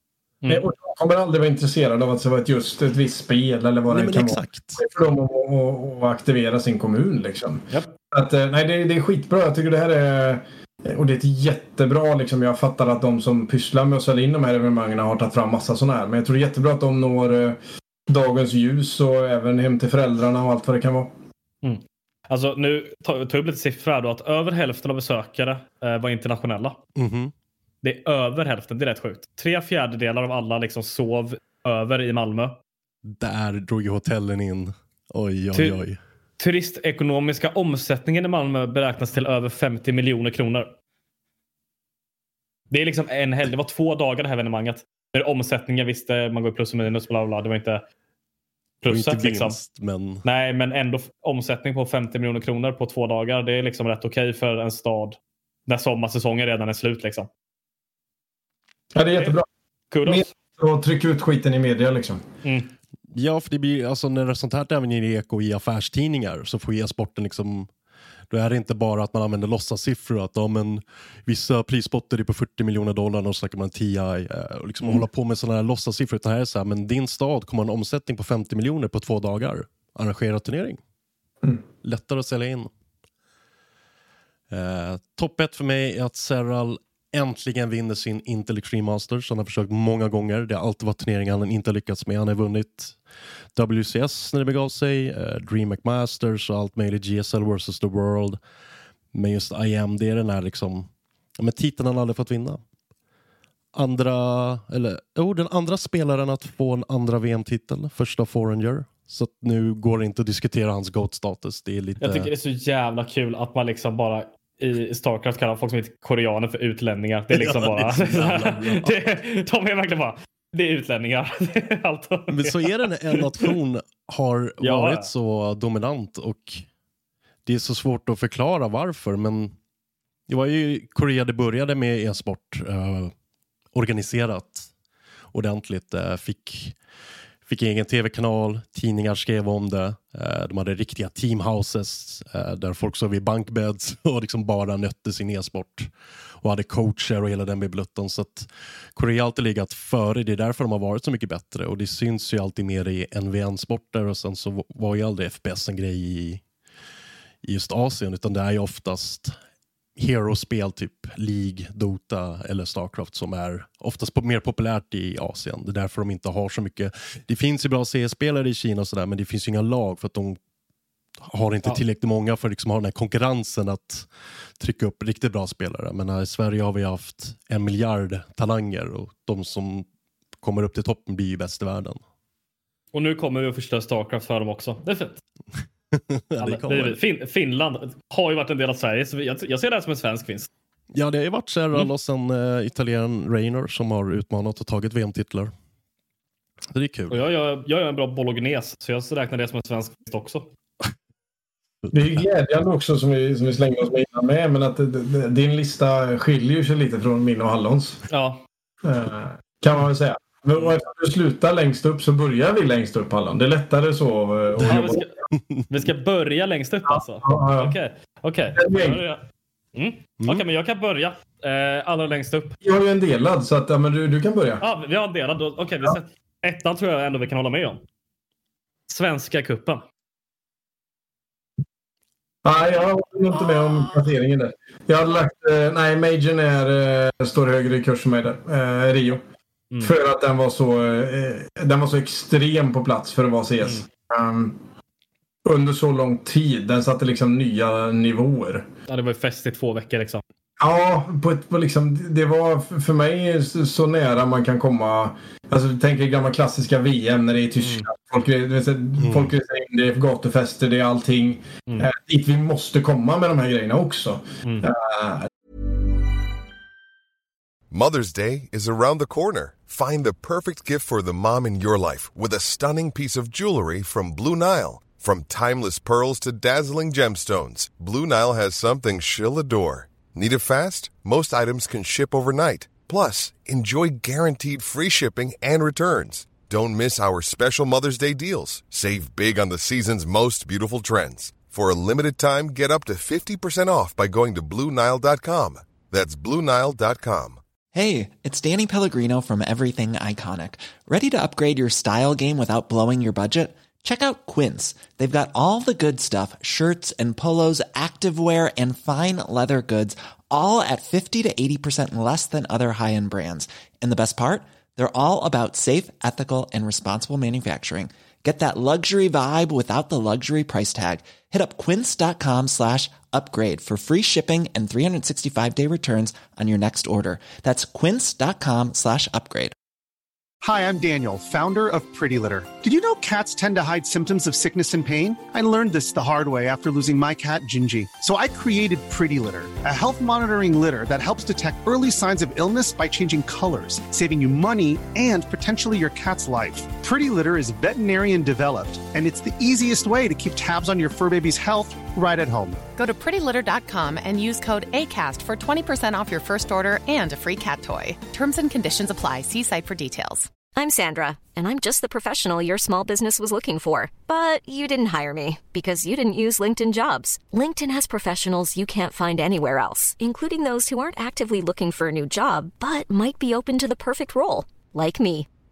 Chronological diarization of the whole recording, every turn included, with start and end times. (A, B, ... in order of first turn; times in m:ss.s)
0:00.5-0:21.1 A
0:03.9-0:04.8 B
0:21.6-0:26.8 C
0:27.0-0:27.3 B
0:27.8-0:32.6 C
0:33.0-0:36.0 B
0:35.5-0:35.8 C
0:36.4-0:40.7 C
0:42.7-0:47.8 C
0:48.8-0:49.6 C
0:48.9-0:50.2 B
0:50.2-0:57.3 C
0:58.9-0:59.5 A
0:59.9-1:00.3 C
1:00.0-1:02.2 A
1:02.4-1:02.7 C
1:03.1-1:07.7 B
1:08.3-1:20.8 B
1:21.8-1:22.7 B
1:24.5-1:33.0 B
1:33.6-1:38.4 B
1:39.1-1:42.6 B
1:43.7-1:52.3 B
1:52.0-2:03.5 C
1:57.3-1:59.2 B
2:02.3-2:06.6 B
2:04.6-2:05.1 C
2:07.4-2:09.5 B
2:10.3-2:13.1 B
2:13.7-2:14.7 B
2:15.3-2:16.7 B
2:17.5-2:25.9 B
2:26.4-2:36.4 B
2:37.4-2:39.3 B
2:40.0-2:50.4 B
2:51.3-2:54.1 B
2:54.6-2:59.8 B
3:00.4-3:02.0 B
3:02.9-3:05.2 C
3:05.9-3:07.0 B
3:06.4-3:10.5 C
3:10.9-3:15.5 B
3:16.7-3:17.2 B
3:17.1-3:20.5 C
3:21.8-3:22.2 B
3:21.9-3:28.0 A
3:28.1-3:28.4 C
3:28.8-3:35.1 A
3:34.6-3:35.1 C
3:35.7-3:39.2 C
3:36.9-3:37.7 A
3:38.5-3:39.0 A
3:39.7-3:42.6 C
3:40.2-3:40.4 B
3:42.6-3:44.6 A
3:44.6-3:47.8 C
3:48.9-3:49.8 C
3:52.4-3:59.2 A
3:59.8-4:04.6 A
4:05.4-4:08.7 A
4:08.9-4:10.2 C
4:10.6-4:25.3 A
4:17.6-4:17.9 C
4:19.0-4:19.3 B
4:24.4-4:24.7 C
4:27.7-4:57.4 D
4:57.7-5:29.5 E
5:30.4-5:52.6 F
5:52.8-6:00.3 G
6:00.5-6:15.3 H